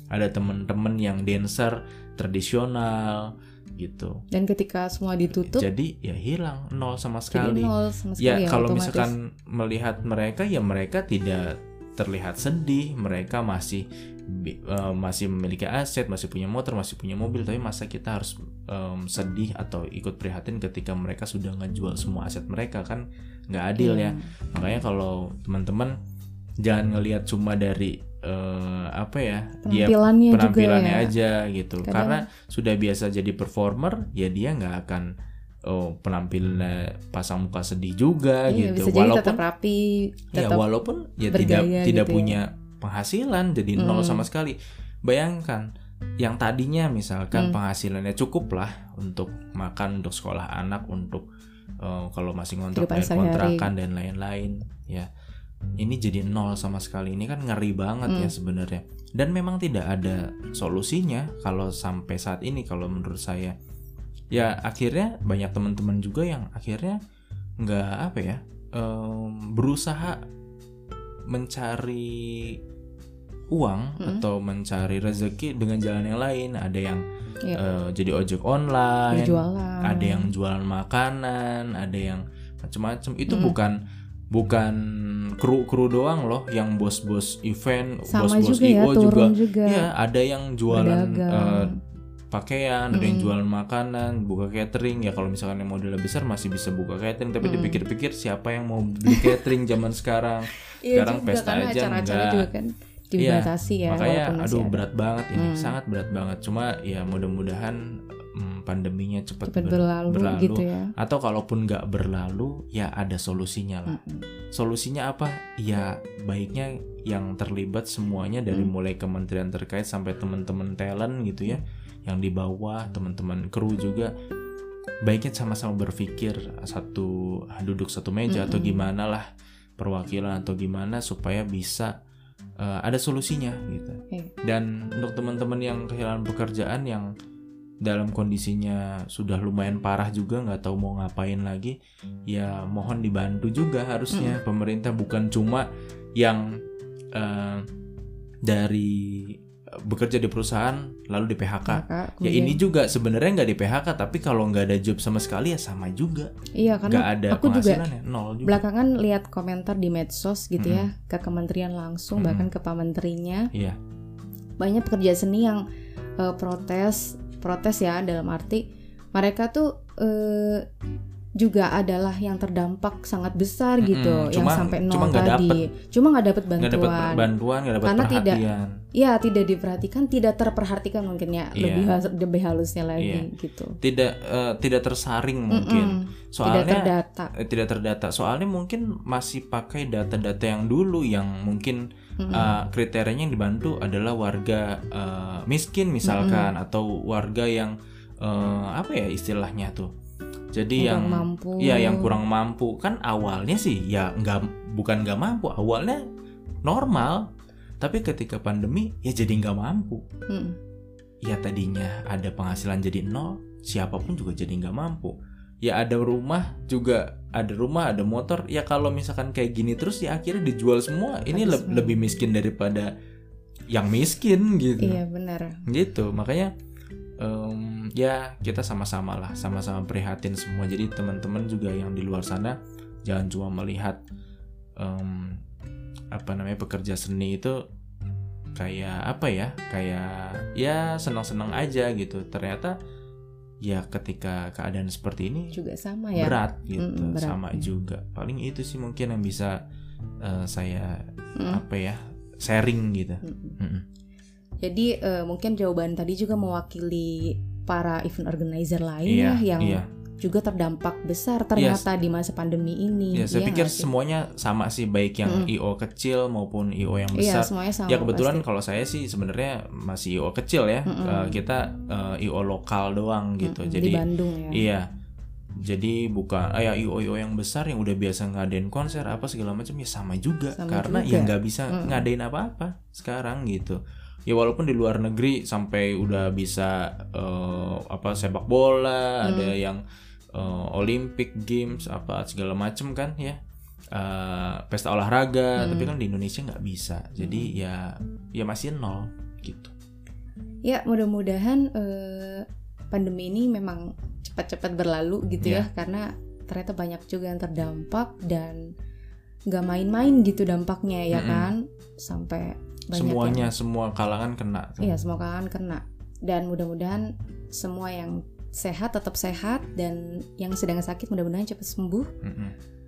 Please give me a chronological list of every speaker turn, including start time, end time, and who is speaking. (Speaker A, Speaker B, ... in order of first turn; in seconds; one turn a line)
Speaker A: 0.1-4.2
Speaker B: 4.3-5.7
Speaker A: 5.4-26.0
Speaker B: 7.3-9.1
Speaker B: 23.8-24.8
Speaker A: 26.6-35.1
Speaker B: 29.6-31.1
Speaker B: 31.8-32.2
Speaker A: 35.7-39.4
Speaker B: 38.5-40.7
Speaker A: 40.3-45.7
Speaker B: 41.3-42.4
Speaker B: 43.8-44.3
Speaker A: 46.2-51.3
Speaker A: 51.8-55.1
Speaker B: 52.7-53.7
Speaker A: 55.8-63.6
Speaker B: 58.1-58.3
Speaker A: 64.3-67.0
Speaker A: 67.6-70.2
Speaker A: 71.3-72.6
Speaker A: 73.5-83.8
Speaker B: 79.1-80.3
Speaker B: 83.3-83.6
Speaker A: 84.3-84.8
Speaker A: 85.3-91.7
Speaker B: 88.1-89.9
Speaker B: 90.7-91.8
Speaker A: 92.3-102.5
Speaker B: 92.9-93.3
Speaker B: 97.4-97.8
Speaker B: 99.1-99.4
Speaker B: 100.8-105.8
Speaker A: 103.2-107.8
Speaker A: 108.3-114.0
Speaker B: 109.5-110.9
Speaker B: 113.9-114.2
Speaker A: 114.5-124.1
Speaker A: 125.1-131.9
Speaker B: 128.3-128.9
Speaker A: 132.6-137.1
Speaker A: 137.8-141.8
Speaker A: 142.3-146.5
Speaker B: 144.1-144.4
Speaker A: 147.2-147.7
Speaker A: 148.5-156.3
Speaker B: 151.7-152.6
Speaker B: 156.6-157.9
Speaker A: 156.9-158.6
Speaker B: 158.4-163.5
Speaker A: 160.6-160.9
Speaker A: 162.2-162.5
Speaker A: 163.5-163.8
Speaker B: 164.6-165.6
Speaker B: 166.2-170.7
Speaker B: 171.4-177.3
Speaker A: 173.8-175.6
Speaker A: 176.6-178.7
Speaker B: 177.8-183.8
Speaker A: 181.6-181.9
Speaker A: 183.0-183.3
Speaker A: 183.8-191.8
Speaker B: 185.5-187.3
Speaker B: 192.2-192.6
Speaker A: 192.3-199.9
Speaker B: 196.0-196.5
Speaker A: 200.5-206.0
Speaker B: 200.8-202.2
Speaker A: 206.7-207.3
Speaker A: 207.8-210.1
Speaker B: 210.3-210.6
Speaker A: 211.2-222.9
Speaker B: 221.3-222.0
Speaker A: 223.7-225.0
Speaker B: 224.8-225.6
Speaker A: 225.7-226.5
Speaker A: 227.2-234.0
Speaker A: 234.8-235.4
Speaker A: 236.1-237.6
Speaker A: 238.6-242.8
Speaker A: 243.6-245.6
Speaker B: 245.5-247.7
Speaker A: 246.2-249.6
Speaker A: 250.2-253.8
Speaker B: 251.4-251.6
Speaker B: 253.2-253.6
Speaker B: 254.6-263.9
Speaker A: 259.1-259.9
Speaker A: 261.6-261.9
Speaker A: 263.1-274.9
Speaker B: 265.3-265.5
Speaker B: 267.2-268.4
Speaker B: 270.9-271.4
Speaker B: 273.4-274.6
Speaker A: 275.6-289.8
Speaker B: 280.6-282.1
Speaker B: 289.2-289.5
Speaker A: 290.3-293.4
Speaker A: 293.9-299.7
Speaker B: 295.6-295.9
Speaker B: 297.2-297.5
Speaker B: 300.6-308.6
Speaker A: 305.4-305.7
Speaker B: 309.5-313.5
Speaker A: 311.1-311.5
Speaker A: 312.9-315.0
Speaker B: 314.8-322.1
Speaker A: 322.2-322.6